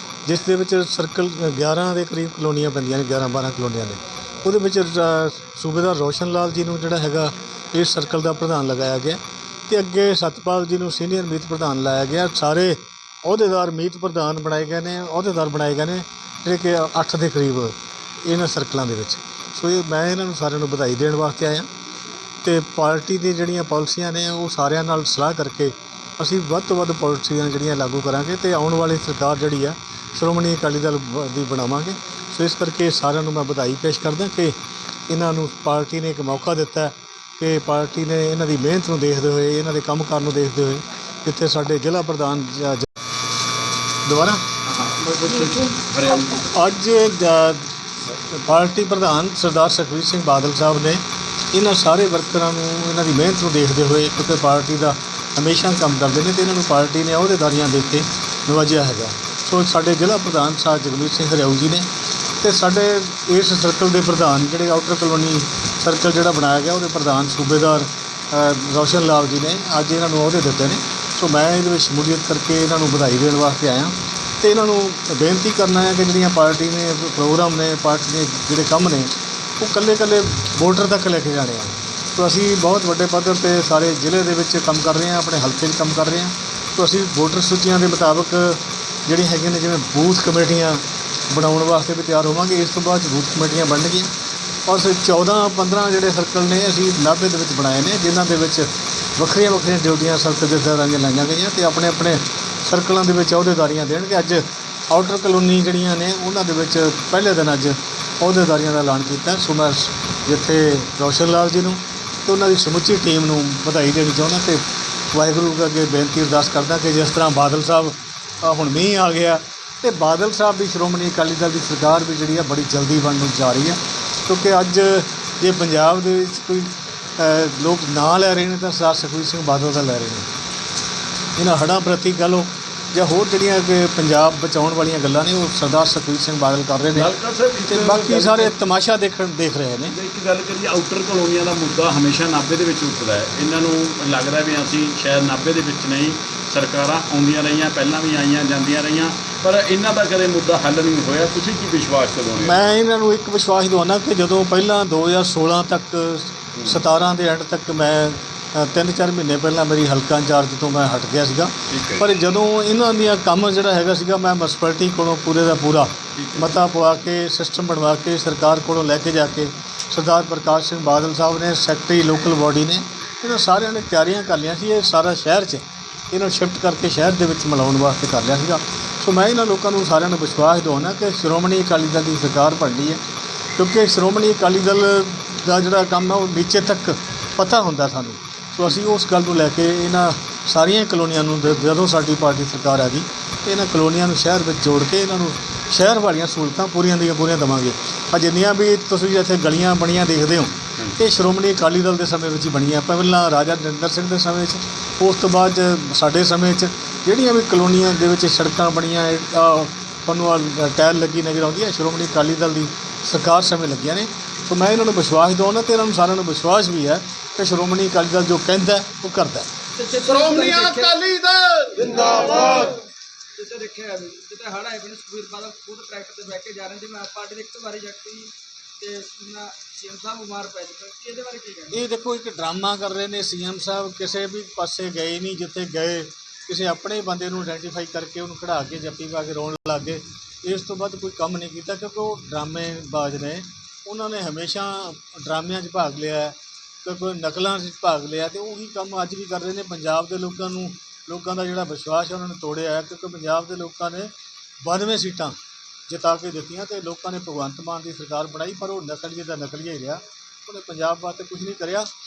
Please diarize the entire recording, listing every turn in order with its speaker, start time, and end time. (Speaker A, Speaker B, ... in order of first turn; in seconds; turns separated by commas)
Speaker A: 0.2-21.7, Speaker A: 22.4-34.6, Speaker A: 35.1-42.9, Speaker A: 44.0-44.4, Speaker B: 44.6-46.5, Speaker A: 46.3-94.1, Speaker A: 94.7-130.3, Speaker A: 131.3-137.1, Speaker B: 136.9-138.5, Speaker A: 137.6-139.9, Speaker B: 139.9-152.7, Speaker A: 152.4-183.0, Speaker B: 161.7-162.1, Speaker B: 166.2-166.5, Speaker A: 183.6-219.5, Speaker C: 219.8-221.0, Speaker B: 220.1-222.7, Speaker C: 221.8-222.8, Speaker C: 223.3-231.8, Speaker A: 231.7-254.1, Speaker A: 254.6-261.9